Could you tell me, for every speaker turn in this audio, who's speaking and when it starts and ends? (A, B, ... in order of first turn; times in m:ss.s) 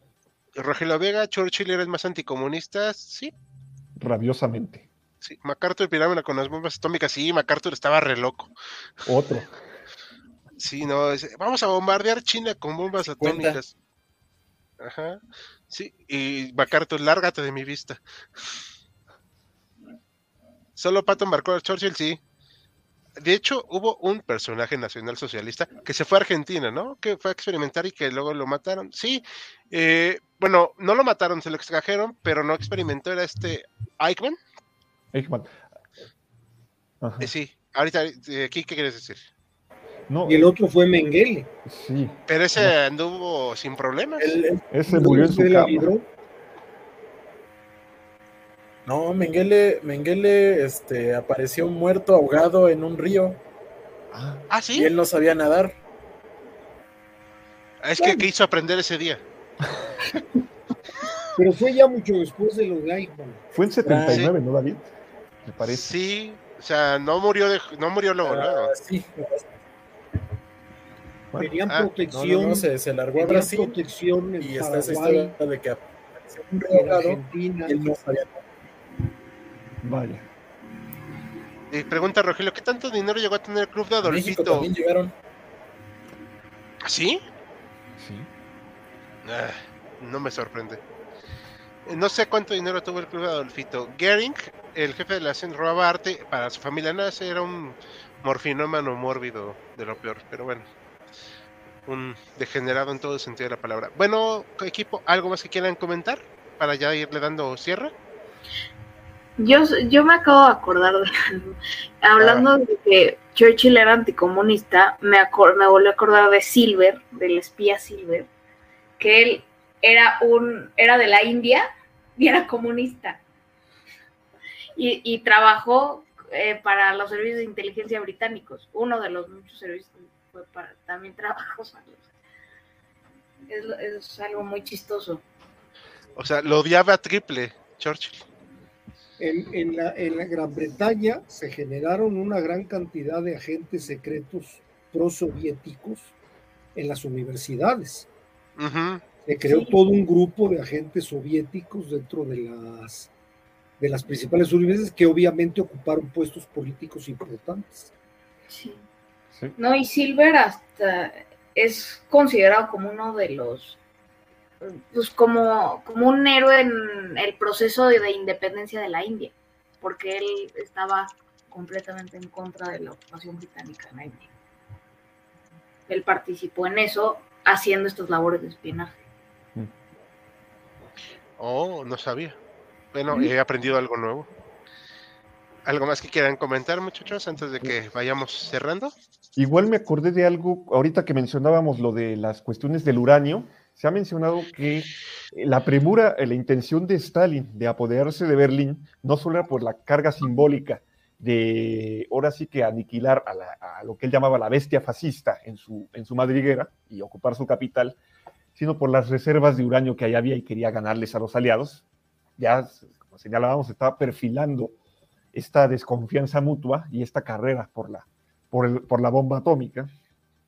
0:00.6-0:03.3 A
0:04.0-0:04.9 B
0:05.2-0:08.5 A
0:09.0-0:09.6 B
0:10.6-0:13.7 A
0:13.2-0:13.6 C
0:14.8-0:18.6 A
0:20.8-0:22.2 A
0:23.2-0:34.4 A
0:35.1-0:35.7 B
0:37.0-0:37.3 B
0:37.2-0:39.2 A
0:40.1-0:40.5 B
0:40.2-0:41.5 D
0:41.6-0:42.8 B
0:42.3-0:44.4 A
0:44.2-0:44.7 C
0:44.7-0:45.9 B
0:44.9-0:46.1 D
0:48.9-0:53.4 C
0:54.1-0:54.4 B
0:54.5-0:54.9 A
0:54.7-0:55.8 C
0:57.8-0:59.2 A
1:01.4-1:03.5 D
1:03.5-1:04.9 B
1:03.8-1:04.3 C
1:05.4-1:06.0 B
1:05.6-1:08.7 A
1:08.2-1:09.5 C
1:11.4-1:15.4 D
1:12.1-1:13.8 C
1:14.4-1:18.4 C
1:16.7-1:17.8 D
1:19.8-1:20.3 B
1:21.7-1:24.7 A
1:24.0-1:25.1 C
1:26.8-1:27.2 A
1:28.0-1:28.3 B
1:29.2-1:30.8 A
1:31.9-1:40.7 A
1:41.9-1:47.9 A
1:49.4-1:58.3 E
1:52.2-1:52.5 A
1:59.0-2:03.2 E
2:04.8-2:12.1 E
2:13.5-2:15.2 E
2:16.2-2:18.3 A
2:19.2-2:26.1 D
2:26.8-2:28.1 D
2:28.6-2:29.0 A
2:29.2-2:33.1 D
2:29.5-2:29.8 E
2:33.8-2:37.9 D
2:38.5-2:38.8 E
2:39.3-2:39.6 B
2:39.6-2:43.8 E
2:44.6-2:54.3 E
2:55.9-2:59.0 E
3:01.4-3:02.4 A
3:02.9-3:04.3 A
3:05.6-3:08.9 A
3:09.4-3:28.0 B
3:28.6-3:31.8 B
3:32.4-3:34.8 B
3:35.3-3:39.9 B